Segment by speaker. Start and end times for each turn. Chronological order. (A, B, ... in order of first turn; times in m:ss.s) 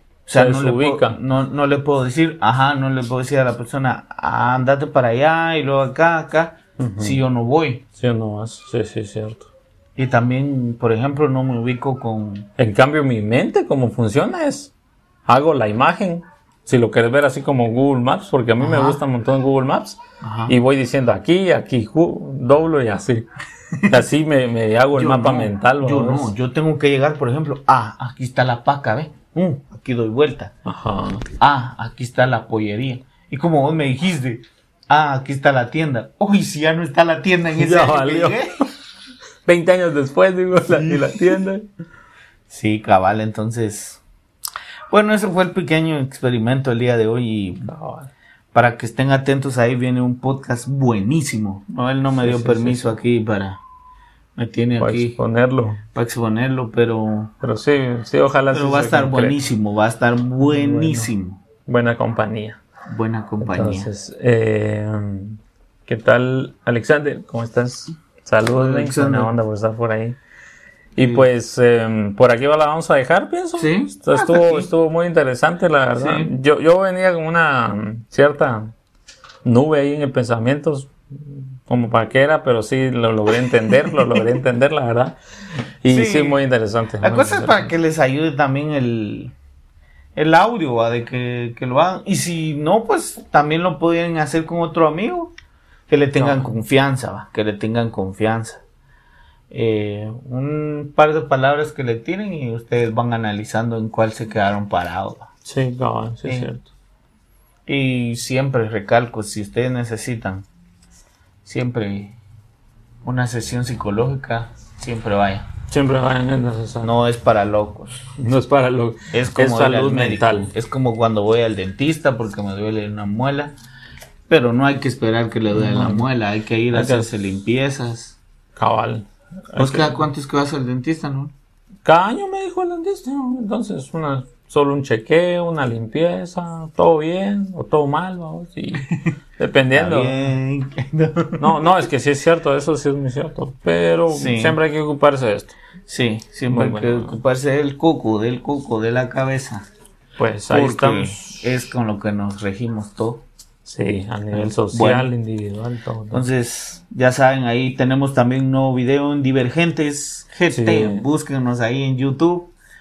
0:00.2-0:07.8 A
0:00.3-0:01.2 B
0:06.8-0:07.2 B
0:08.0-0:09.5 B
0:10.0-0:12.5 A
0:12.6-0:14.7 B
0:15.3-0:23.3 B
0:18.6-0:19.0 A
0:20.2-0:20.6 A
0:23.7-0:24.0 A
0:23.8-0:26.3 B
0:24.9-0:30.5 A
0:30.6-0:31.2 B
0:31.4-0:38.6 A
0:37.5-0:38.6 B
0:39.4-0:41.7 B
0:40.7-0:41.4 A
0:42.5-0:44.0 A
0:44.9-0:47.7 A
0:47.6-0:48.1 B
0:48.5-0:53.6 A
0:52.2-0:53.0 B
0:54.4-0:55.2 A
0:54.8-0:55.8 B
0:55.9-0:57.3 A
0:57.4-0:59.4 B
0:58.5-1:01.4 A
1:00.4-1:01.1 B
1:01.6-1:02.6 B
1:02.9-1:03.9 A
1:03.4-1:10.2 B
1:08.6-1:09.3 A
1:10.9-1:18.7 B
1:11.0-1:11.2 A
1:13.6-1:14.7 A
1:16.0-1:16.3 A
1:19.4-1:25.2 B
1:25.8-1:27.7 B
1:25.9-1:26.4 A
1:27.0-1:29.3 A
1:30.2-1:35.3 A
1:35.9-1:38.6 A
1:36.2-1:36.5 B
1:39.5-1:45.3 A
1:45.4-1:46.7 B
1:47.7-1:50.4 A
1:51.4-1:52.2 A
1:53.0-1:55.5 A
1:55.7-1:56.9 B
1:56.8-1:58.0 A
1:58.2-2:00.5 B
1:59.1-2:03.6 A
2:04.3-2:08.2 A
2:05.5-2:06.1 B
2:06.7-2:07.1 B
2:08.6-2:10.1 B
2:09.6-2:11.3 A
2:11.8-2:20.3 B
2:19.7-2:21.8 A
2:21.4-2:25.6 B
2:24.1-2:24.6 A
2:25.9-2:29.7 A
2:26.5-2:27.2 B
2:30.2-2:31.5 B
2:30.5-2:33.2 A
2:33.6-2:36.2 B
2:34.3-2:35.1 A
2:36.1-2:42.5 A
2:40.5-2:41.0 B